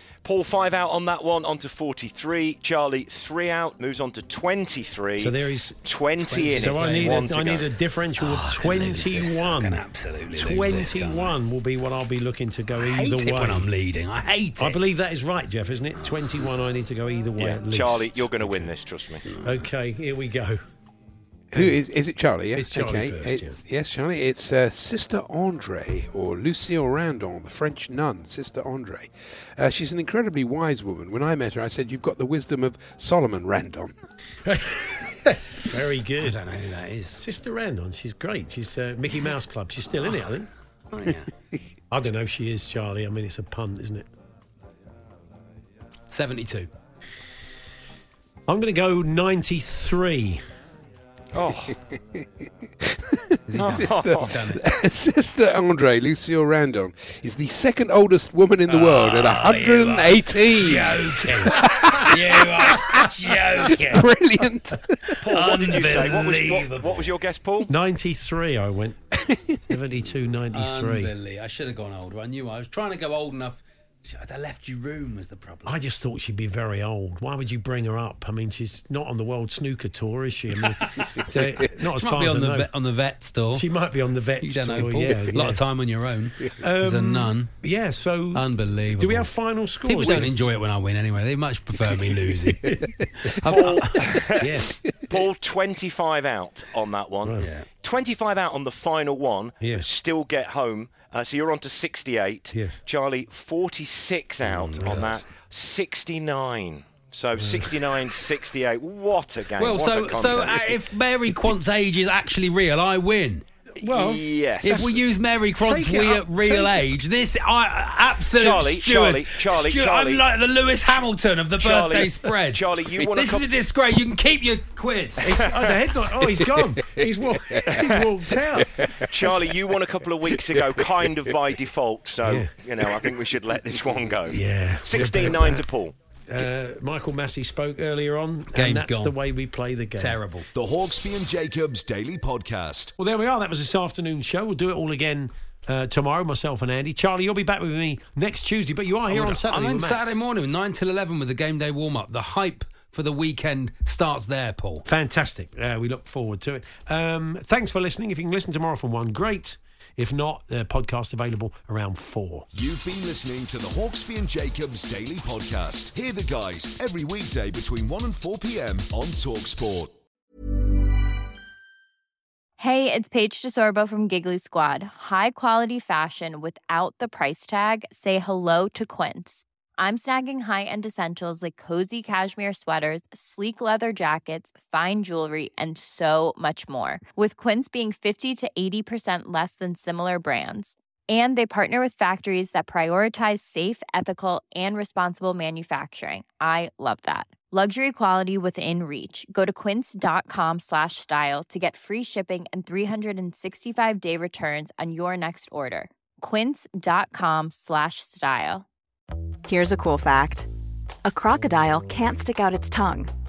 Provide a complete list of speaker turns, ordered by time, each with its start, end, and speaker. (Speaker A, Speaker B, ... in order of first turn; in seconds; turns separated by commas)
Speaker A: 0.2-7.6, Speaker B: 5.2-5.8, Speaker C: 6.2-7.4, Speaker B: 6.4-9.8, Speaker C: 8.2-11.4, Speaker B: 10.3-13.7, Speaker C: 12.7-14.8, Speaker B: 14.6-18.3, Speaker C: 16.0-16.3, Speaker A: 17.4-19.2, Speaker C: 18.4-18.7, Speaker C: 19.2-19.6, Speaker B: 19.4-20.6, Speaker D: 21.5-33.9, Speaker B: 22.5-23.6, Speaker B: 34.5-36.4, Speaker C: 36.2-37.2, Speaker B: 37.2-40.5, Speaker C: 40.9-41.3, Speaker B: 41.9-44.1, Speaker C: 46.1-46.7, Speaker B: 48.5-50.4, Speaker A: 51.3-51.7, Speaker D: 51.5-52.3, Speaker D: 52.9-61.0, Speaker C: 53.5-54.6, Speaker A: 53.6-54.2, Speaker C: 58.7-64.1, Speaker B: 61.2-62.1, Speaker D: 61.5-63.0, Speaker D: 63.6-65.2, Speaker A: 65.2-67.7, Speaker C: 65.2-67.1, Speaker B: 65.3-66.5, Speaker B: 67.7-69.0, Speaker D: 69.2-69.6, Speaker B: 69.7-71.1, Speaker C: 70.5-75.8, Speaker B: 75.6-82.7, Speaker C: 80.8-81.2, Speaker C: 81.9-83.7, Speaker B: 83.5-85.6, Speaker C: 84.4-87.5, Speaker B: 86.6-88.4, Speaker C: 88.3-89.3, Speaker B: 88.9-90.3, Speaker C: 89.8-94.0, Speaker A: 93.5-94.5, Speaker B: 93.5-93.8, Speaker B: 94.4-94.7, Speaker A: 95.1-110.7, Speaker B: 97.2-97.5, Speaker C: 97.4-97.7, Speaker B: 99.6-99.9, Speaker B: 102.5-102.8, Speaker C: 104.4-105.3, Speaker B: 107.3-107.9, Speaker C: 109.5-113.4, Speaker B: 113.8-115.0, Speaker A: 113.8-114.9, Speaker C: 114.6-125.3, Speaker B: 115.6-116.9, Speaker A: 118.3-120.2, Speaker A: 121.6-123.5, Speaker B: 125.2-129.4, Speaker A: 127.7-128.0, Speaker A: 129.1-135.9, Speaker D: 130.5-130.8, Speaker B: 132.2-132.5, Speaker B: 134.3-135.6, Speaker B: 136.3-140.2, Speaker C: 138.5-139.2, Speaker C: 140.0-140.5, Speaker E: 140.5-142.9, Speaker B: 143.0-150.2, Speaker C: 149.1-154.8, Speaker B: 154.8-162.5, Speaker E: 162.5-169.9, Speaker F: 172.6-208.6, Speaker G: 209.4-210.5, Speaker G: 211.0-213.1